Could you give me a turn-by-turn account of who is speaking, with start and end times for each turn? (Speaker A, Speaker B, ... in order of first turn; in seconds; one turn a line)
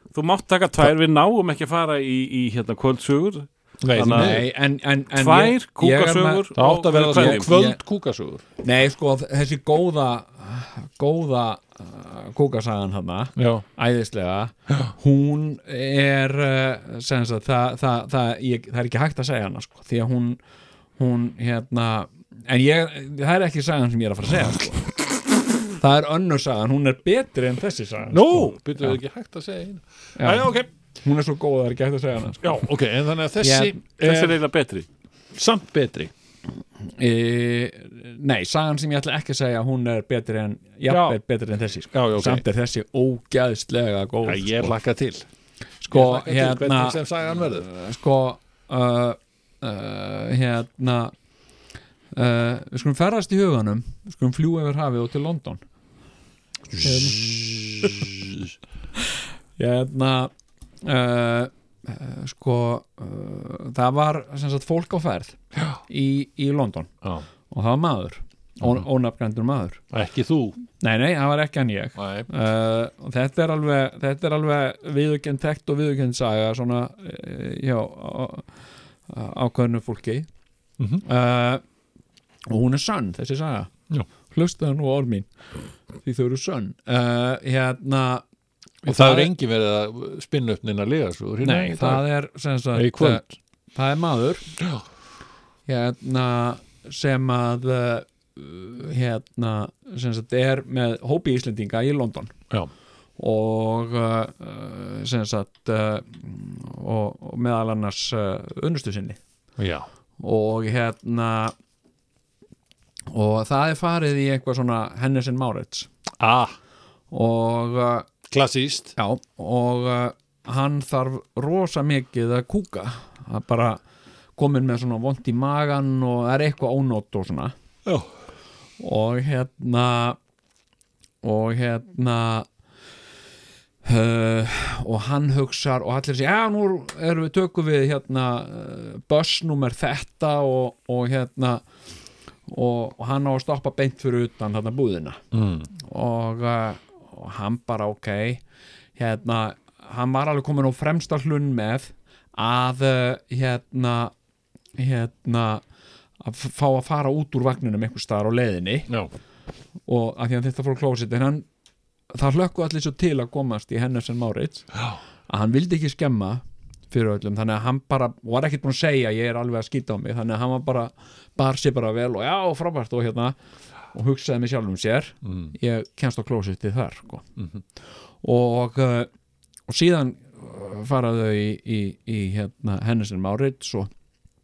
Speaker A: 0.1-4.5
Speaker B: 3.8-4.5
Speaker C: 4.0-6.5
Speaker A: 5.1-7.5
Speaker B: 6.5-8.4
Speaker C: 7.0-7.8
Speaker C: 8.6-20.4
Speaker B: 13.3-13.6
Speaker B: 14.7-14.9
Speaker C: 21.0-24.9
Speaker C: 25.8-29.0
Speaker B: 28.1-30.7
Speaker C: 30.2-32.6
Speaker B: 32.4-34.4
Speaker C: 33.4-33.8
Speaker A: 34.0-34.9
Speaker B: 35.3-36.1
Speaker C: 36.8-44.7
Speaker B: 40.9-41.2
Speaker B: 41.9-42.4
Speaker B: 44.2-45.3
Speaker C: 45.8-51.1
Speaker B: 45.9-47.7
Speaker C: 52.1-55.6
Speaker B: 56.7-58.5
Speaker C: 56.8-57.2
Speaker C: 59.6-66.9
Speaker B: 65.5-65.8
Speaker C: 67.5-69.8
Speaker B: 69.9-70.6
Speaker C: 70.8-78.5
Speaker B: 72.0-72.3
Speaker C: 79.1-80.3
Speaker B: 80.8-81.0
Speaker C: 81.0-81.6
Speaker C: 82.5-83.7
Speaker C: 84.3-85.3
Speaker C: 86.0-88.2
Speaker C: 88.8-89.3
Speaker B: 88.8-92.0
Speaker C: 91.4-93.2
Speaker B: 92.7-93.3
Speaker C: 93.7-94.5
Speaker C: 95.7-102.3
Speaker C: 103.2-109.2
Speaker B: 109.6-109.8
Speaker C: 110.2-111.5
Speaker C: 113.1-115.9
Speaker B: 116.2-116.5
Speaker C: 117.1-118.1
Speaker B: 118.3-118.9
Speaker C: 119.0-123.8
Speaker C: 124.3-127.5
Speaker B: 127.8-128.1
Speaker C: 128.8-130.2
Speaker C: 131.2-132.5
Speaker C: 133.8-141.6
Speaker C: 142.5-145.2
Speaker B: 145.3-145.7
Speaker C: 145.7-148.4
Speaker C: 148.9-154.1
Speaker C: 154.8-155.6
Speaker C: 156.2-158.9
Speaker C: 159.8-161.4
Speaker C: 162.1-164.7
Speaker C: 165.3-173.3
Speaker C: 173.9-177.2
Speaker B: 175.2-175.5
Speaker C: 178.2-179.1
Speaker C: 179.7-183.9